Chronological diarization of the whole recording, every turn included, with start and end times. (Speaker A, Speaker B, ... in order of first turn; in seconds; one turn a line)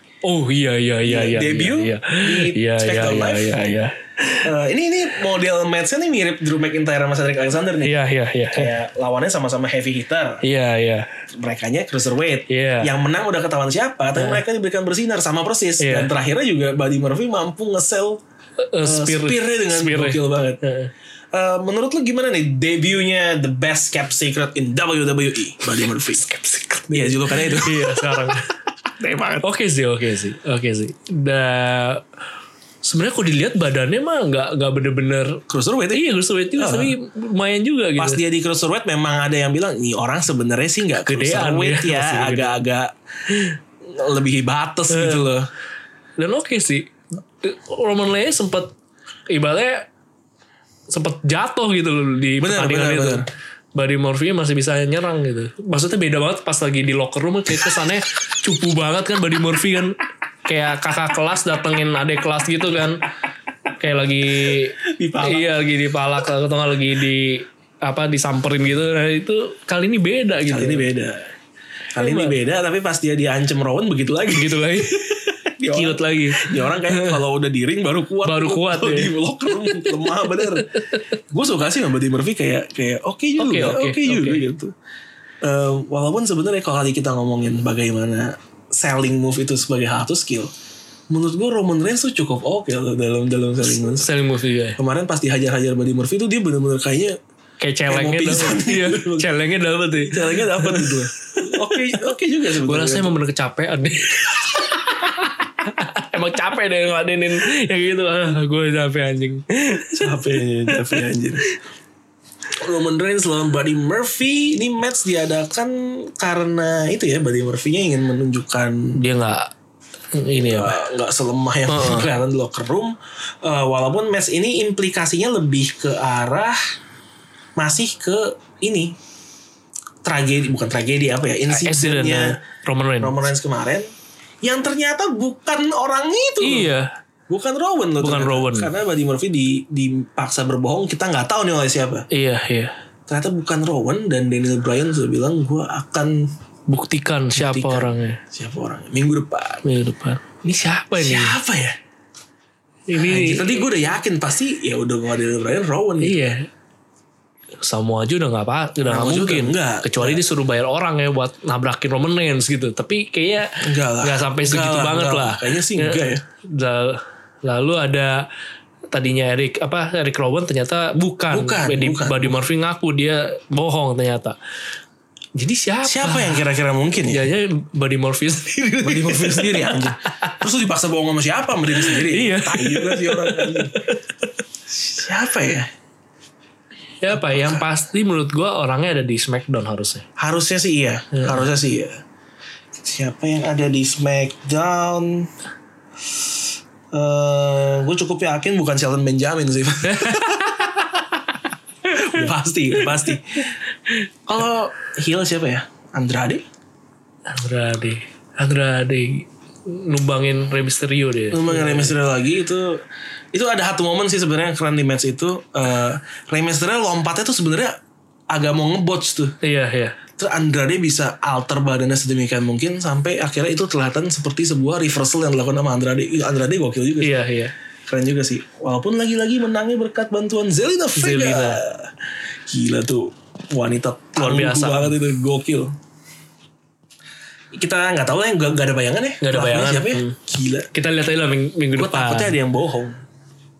Speaker A: 0.2-4.5
Speaker B: 1.0-3.7
Speaker B: 4.4-7.9
Speaker A: 7.8-8.7
Speaker B: 8.5-10.4
Speaker A: 10.4-11.1
Speaker B: 11.3-18.2
Speaker A: 12.5-12.9
Speaker A: 14.1-14.4
Speaker A: 15.8-16.1
Speaker A: 18.6-20.9
Speaker B: 18.8-20.6
Speaker B: 21.3-26.3
Speaker A: 26.1-28.5
Speaker B: 26.9-28.4
Speaker B: 28.9-29.5
Speaker A: 29.4-32.0
Speaker A: 32.8-35.4
Speaker B: 35.5-37.0
Speaker A: 35.9-38.2
Speaker B: 38.0-42.9
Speaker A: 41.0-42.6
Speaker B: 43.8-45.5
Speaker A: 44.9-45.3
Speaker A: 46.2-48.7
Speaker A: 49.3-49.9
Speaker A: 50.9-53.2
Speaker B: 52.4-53.2
Speaker A: 53.7-63.0
Speaker A: 63.8-70.9
Speaker B: 64.5-65.6
Speaker B: 70.5-71.2
Speaker B: 71.9-80.8
Speaker A: 72.0-72.4
Speaker A: 74.3-77.2
Speaker A: 78.2-81.0
Speaker B: 81.3-84.7
Speaker A: 83.4-84.4
Speaker B: 85.4-90.5
Speaker B: 91.1-94.1
Speaker A: 93.8-94.8
Speaker B: 94.8-97.2
Speaker A: 97.6-102.1
Speaker B: 97.9-99.3
Speaker B: 100.0-103.1
Speaker A: 102.6-111.0
Speaker B: 109.9-111.4
Speaker B: 112.5-119.0
Speaker A: 118.9-119.5
Speaker A: 120.1-120.8
Speaker B: 120.4-126.6
Speaker A: 121.7-122.1
Speaker B: 127.6-128.9
Speaker B: 130.0-132.4
Speaker A: 131.5-133.3
Speaker B: 133.0-133.8
Speaker B: 134.4-136.7
Speaker A: 136.4-136.9
Speaker B: 137.3-142.1
Speaker A: 138.0-138.7
Speaker A: 142.1-142.7
Speaker B: 143.1-146.3
Speaker A: 146.7-148.2
Speaker B: 147.3-149.6
Speaker A: 149.6-151.3
Speaker B: 150.9-151.8
Speaker A: 152.9-153.7
Speaker B: 153.0-156.2
Speaker A: 156.0-156.5
Speaker A: 157.6-168.2
Speaker B: 158.8-160.2
Speaker B: 163.6-166.2
Speaker A: 168.9-174.3
Speaker B: 171.3-172.4
Speaker A: 175.3-176.4
Speaker B: 175.8-177.2
Speaker A: 177.1-180.4
Speaker B: 178.8-183.8
Speaker A: 181.7-184.3
Speaker B: 184.7-185.7
Speaker A: 187.0-190.1
Speaker B: 187.1-187.6
Speaker B: 190.2-192.0
Speaker A: 191.1-191.4
Speaker B: 192.8-195.3
Speaker B: 196.9-200.6
Speaker A: 199.8-200.9
Speaker B: 201.9-203.5
Speaker A: 201.9-202.2
Speaker A: 202.8-203.1
Speaker B: 204.2-206.4
Speaker A: 207.3-211.9
Speaker B: 211.3-212.8
Speaker B: 213.3-217.7
Speaker B: 218.3-219.3
Speaker A: 219.4-219.9
Speaker B: 220.2-227.2
Speaker A: 227.0-227.5
Speaker B: 227.9-231.9
Speaker A: 230.9-231.6
Speaker B: 232.5-235.7
Speaker A: 234.2-234.9
Speaker B: 237.5-240.7
Speaker A: 239.2-240.2
Speaker A: 240.7-242.3
Speaker B: 241.8-243.0